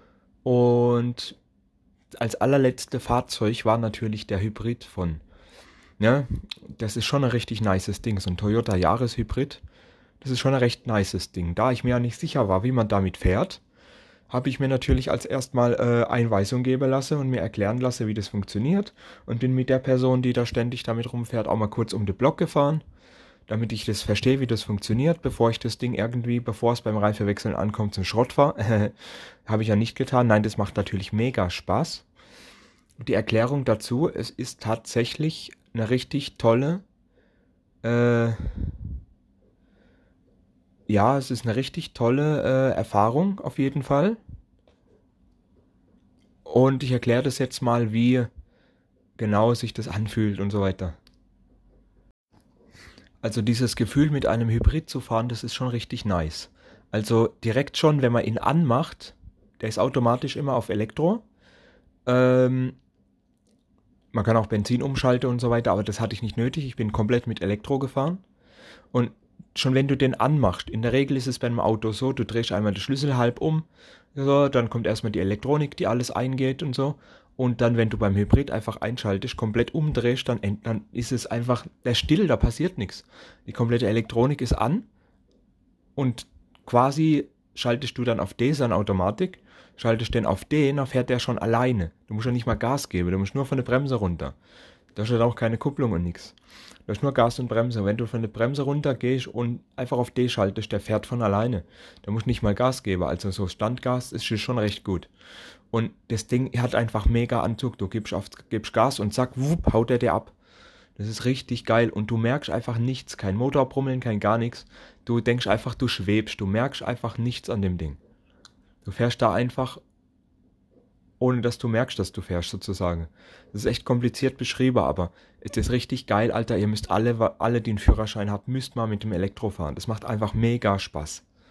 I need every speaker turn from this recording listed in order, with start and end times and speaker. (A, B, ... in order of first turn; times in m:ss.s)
0:00.4-0:01.4 A
0:02.2-0:05.2 A
0:06.0-0:09.6 A
0:10.2-0:13.6 A
0:14.3-0:22.8 A
0:23.5-0:28.9 A
0:29.4-0:32.1 A
0:33.0-0:36.8 A
0:37.8-0:38.7 A
0:40.9-0:44.2 A
0:46.4-0:48.3 A
0:49.2-0:51.0 A
0:53.2-1:01.2 A
1:02.0-1:02.8 A
1:04.1-1:08.2 A
1:08.9-1:24.8 A
1:26.0-1:34.3 A
1:34.9-1:36.3 A
1:36.9-1:45.1 A
1:45.7-1:50.3 A
1:51.0-1:58.0 A
1:58.8-1:59.8 A
2:01.2-2:11.2 A